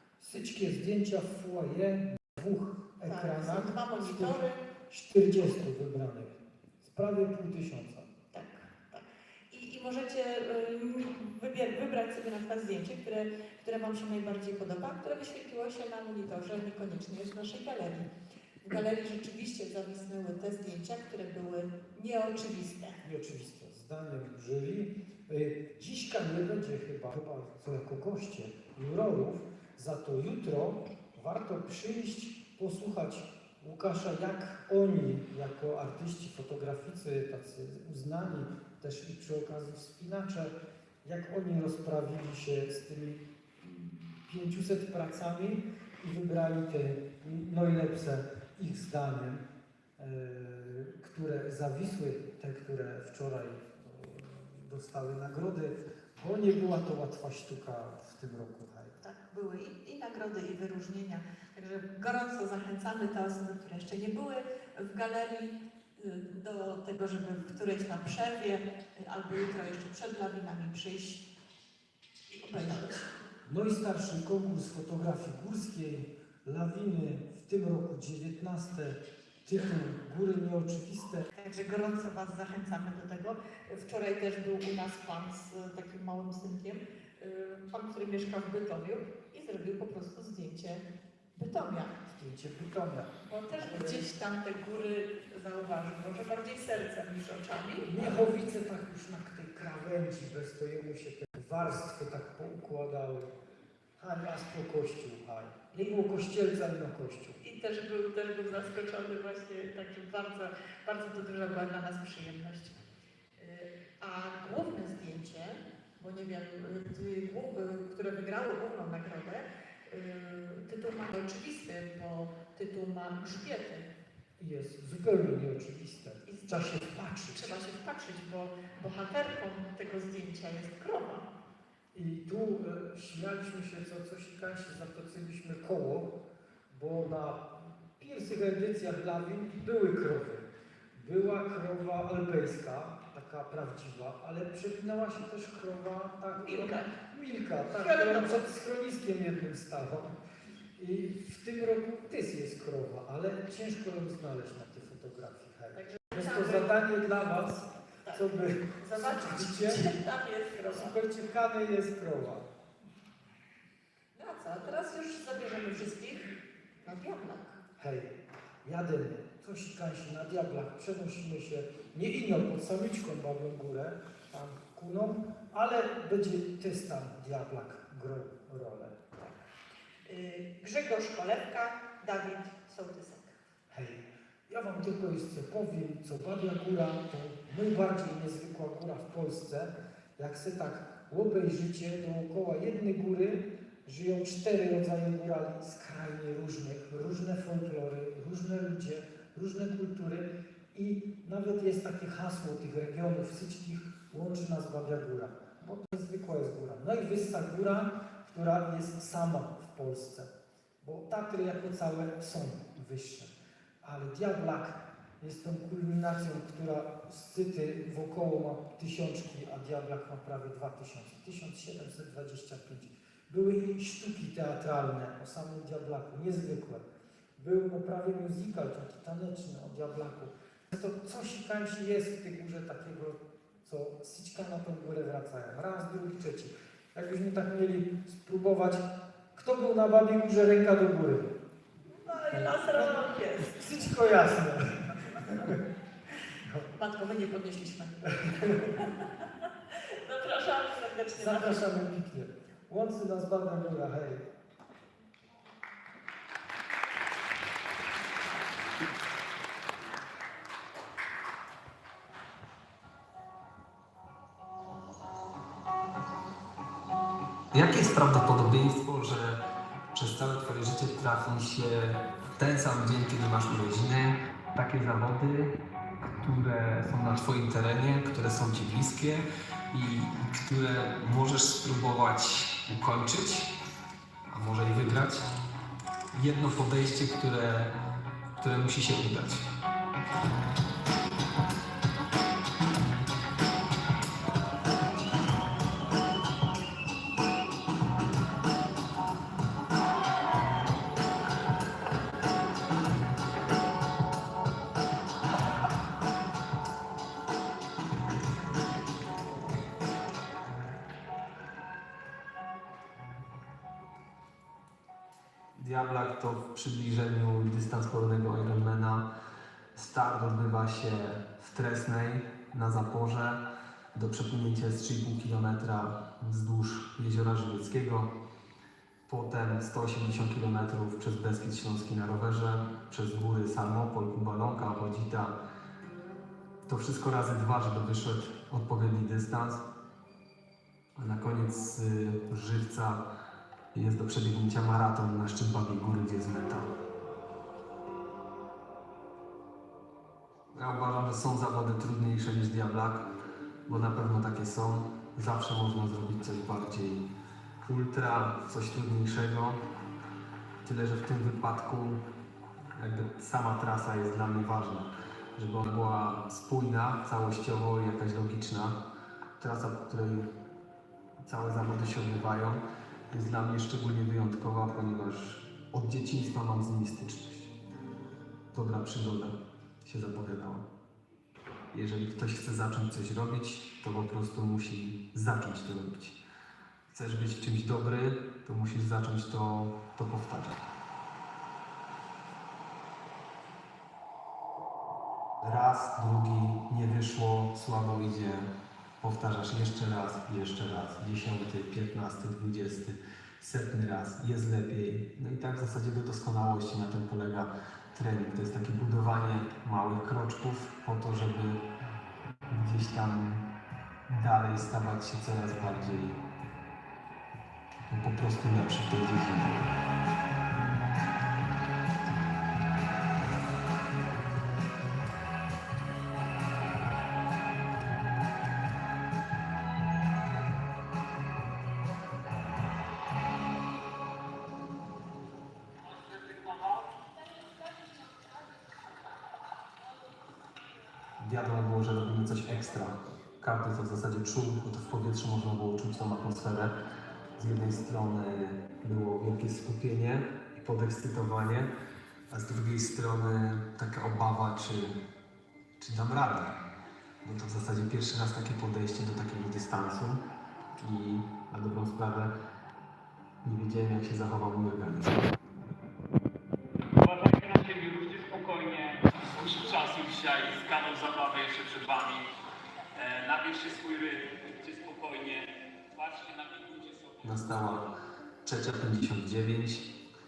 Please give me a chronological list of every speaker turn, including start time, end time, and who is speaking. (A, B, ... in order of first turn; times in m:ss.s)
0:00.2-0:08.1 A
0:03.0-0:04.6 B
0:08.3-0:18.1 B
0:18.6-0:23.0 B
0:23.0-0:49.5 A
0:50.0-0:59.0 A
0:59.0-1:11.3 B
1:12.3-1:13.1 B
1:13.4-1:21.3 A
1:21.3-1:32.0 B
1:32.1-1:34.1 A
1:33.2-1:38.0 B
1:37.9-1:43.3 A
1:44.0-1:47.4 A
1:47.4-1:52.8 B
1:53.4-2:03.9 B
2:04.4-2:07.5 A
2:06.3-2:11.3 B
2:11.9-2:16.2 A
2:16.7-2:30.1 A
2:26.4-2:26.9 B
2:27.7-2:28.4 B
2:30.8-2:37.6 A
2:35.8-2:41.0 B
2:38.1-2:39.9 A
2:40.6-2:42.5 A
2:44.2-2:47.6 B
2:47.8-2:59.0 A
3:00.1-3:03.4 B
3:03.7-3:46.9 A
3:47.4-4:01.4 A
4:01.9-4:03.7 B
4:02.3-4:05.6 A
4:06.3-4:06.7 A
4:06.7-4:11.6 B
4:08.2-4:08.7 A
4:11.1-4:14.3 A
4:27.5-4:29.4 C
4:29.9-4:35.6 C
4:36.2-4:43.5 C
4:44.3-4:45.3 C
4:46.1-4:47.7 C
4:48.4-4:49.5 C
5:15.5-5:19.1 C
5:19.8-5:23.4 C
5:23.9-5:28.1 C
5:29.1-5:35.3 C
5:36.6-5:39.6 C
5:41.0-5:43.0 C
5:43.7-5:46.7 C
5:50.5-5:53.0 C
5:53.7-5:57.0 C
5:57.6-5:59.6 C
6:00.6-6:02.0 C
6:02.8-6:08.8 C
6:09.4-6:10.3 C
6:11.2-6:17.5 C
6:18.5-6:20.7 C
6:21.7-6:26.2 C
6:26.9-6:30.6 C
6:35.4-6:51.6 C
6:52.5-6:53.5 C
6:54.1-6:56.2 C
6:57.9-6:59.7 C
7:15.8-7:17.1 D
7:21.2-7:26.7 C
7:27.4-7:31.7 C
7:32.3-7:35.0 C
7:35.8-7:36.6 C
7:37.2-7:40.2 C
7:40.8-7:42.3 C
7:43.4-7:45.3 C
7:47.0-7:52.3 D
7:53.0-7:57.9 D
7:57.2-7:57.9 C
7:58.4-7:59.9 C